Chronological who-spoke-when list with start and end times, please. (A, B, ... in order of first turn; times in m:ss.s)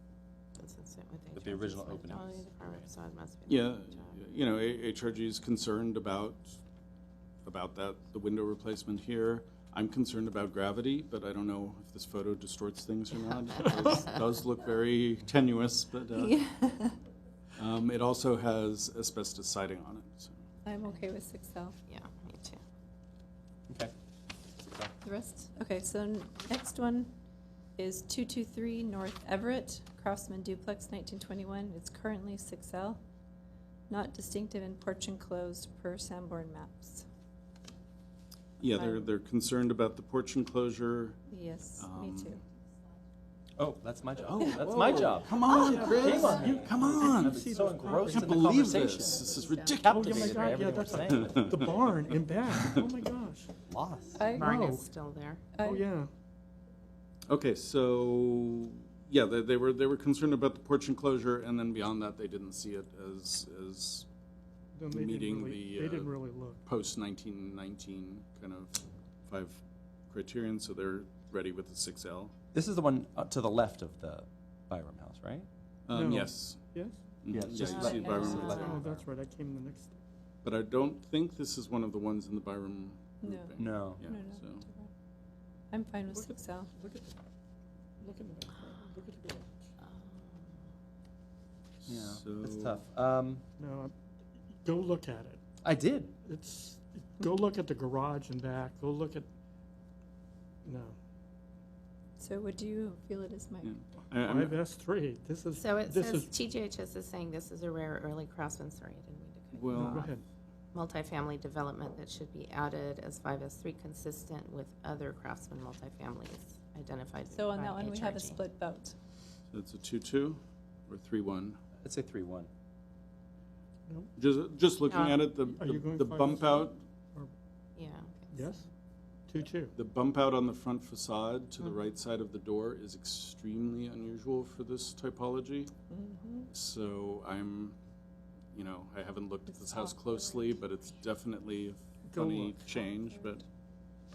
0:00.6-0:04.2 A
0:01.4-0:02.4 B
0:03.5-0:06.6 C
0:07.4-0:16.4 C
0:16.2-0:17.0 D
0:17.6-0:20.4 C
0:20.6-0:21.8 D
0:21.9-0:22.6 A
0:24.6-0:24.9 B
0:25.0-0:27.1 D
0:27.8-0:33.0 D
0:33.9-0:37.1 D
0:38.6-0:41.2 C
0:38.7-0:39.0 D
0:41.3-0:42.4 D
0:41.8-0:42.4 C
0:43.6-0:49.3 B
0:44.2-0:50.2 C
0:44.4-0:44.7 D
0:45.5-0:48.4 E
0:49.0-0:49.8 A
0:49.8-0:51.7 B
0:49.8-0:53.5 E
0:51.0-0:51.9 C
0:52.5-0:52.9 C
0:53.7-0:54.3 B
0:54.2-0:54.6 D
0:54.3-0:54.9 E
0:54.4-0:55.5 A
0:55.5-0:55.8 D
0:55.6-0:56.1 E
0:57.3-1:04.1 C
1:04.8-1:06.6 E
1:04.9-1:12.3 C
1:12.5-1:15.5 B
1:15.9-1:16.6 C
1:15.9-1:17.0 E
1:17.2-1:19.0 C
1:17.3-1:19.0 B
1:17.5-1:18.8 A
1:17.8-1:19.9 E
1:20.4-1:24.7 C
1:23.2-1:24.9 D
1:23.6-1:24.0 B
1:25.7-1:26.7 D
1:26.1-1:27.2 E
1:28.0-1:29.7 E
1:29.8-1:30.7 A
1:31.8-1:32.8 C
1:31.9-1:33.4 B
1:33.6-1:33.9 E
1:34.5-1:35.4 E
1:35.6-1:36.1 B
1:36.3-1:39.3 E
1:40.6-1:41.0 E
1:42.2-1:43.8 D
1:43.6-1:44.6 C
1:44.2-1:46.3 E
1:45.5-1:49.9 A
1:49.6-1:50.1 C
1:49.8-1:50.2 E
1:50.7-1:58.4 A
1:57.3-1:59.0 D
1:59.5-2:01.6 C
2:01.8-2:02.5 B
2:04.2-2:06.8 C
2:04.9-2:05.3 A
2:05.4-2:07.3 E
2:07.8-2:08.6 A
2:08.3-2:08.7 E
2:09.3-2:09.7 E
2:09.8-2:15.7 C
2:11.6-2:11.9 A
2:15.9-2:16.5 D
2:16.5-2:17.8 C
2:18.5-2:23.4 C
2:19.5-2:20.6 D
2:22.1-2:22.6 E